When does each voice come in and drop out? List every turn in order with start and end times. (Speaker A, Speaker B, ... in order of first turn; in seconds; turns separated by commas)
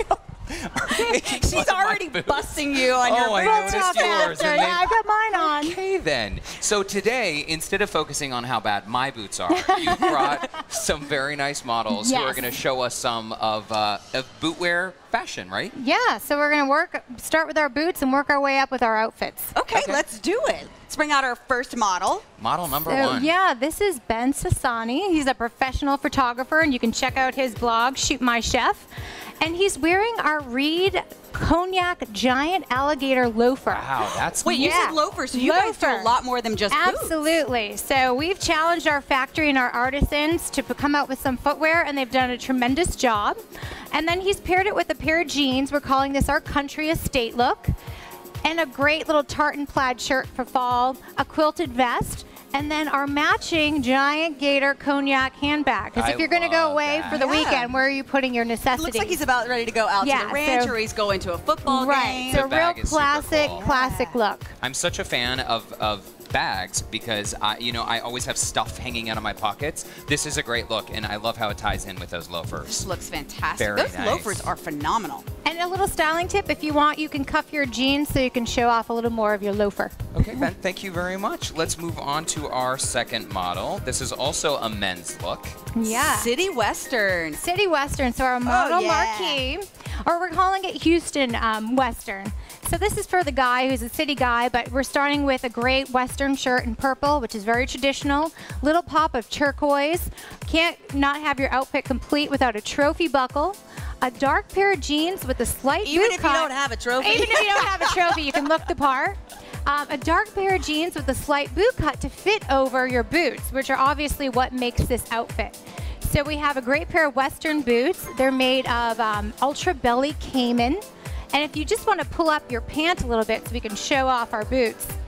Speaker A: 0.5-15.7, Speaker B: 1.0-4.6, Speaker C: 3.3-5.8, Speaker C: 9.5-10.4, Speaker C: 11.9-12.6, Speaker C: 15.7-19.5, Speaker B: 19.6-22.2, Speaker A: 19.7-20.0, Speaker A: 22.4-23.3, Speaker C: 22.9-28.9, Speaker C: 29.4-33.9, Speaker A: 33.7-34.8, Speaker B: 34.4-37.2, Speaker C: 34.4-36.1, Speaker C: 36.7-43.4, Speaker C: 43.9-47.7, Speaker C: 48.4-59.2, Speaker A: 56.0-57.2, Speaker B: 57.1-57.7, Speaker B: 58.7-62.5, Speaker C: 60.0-60.8, Speaker C: 61.6-64.5, Speaker A: 62.3-63.6, Speaker B: 63.5-64.2, Speaker A: 64.6-72.9, Speaker B: 72.7-75.2, Speaker A: 73.6-74.5, Speaker C: 75.4-79.9, Speaker A: 80.1-85.6, Speaker C: 85.8-86.3, Speaker B: 85.8-87.4, Speaker C: 87.4-120.8, Speaker B: 88.4-89.4, Speaker B: 105.8-108.4, Speaker C: 121.3-124.9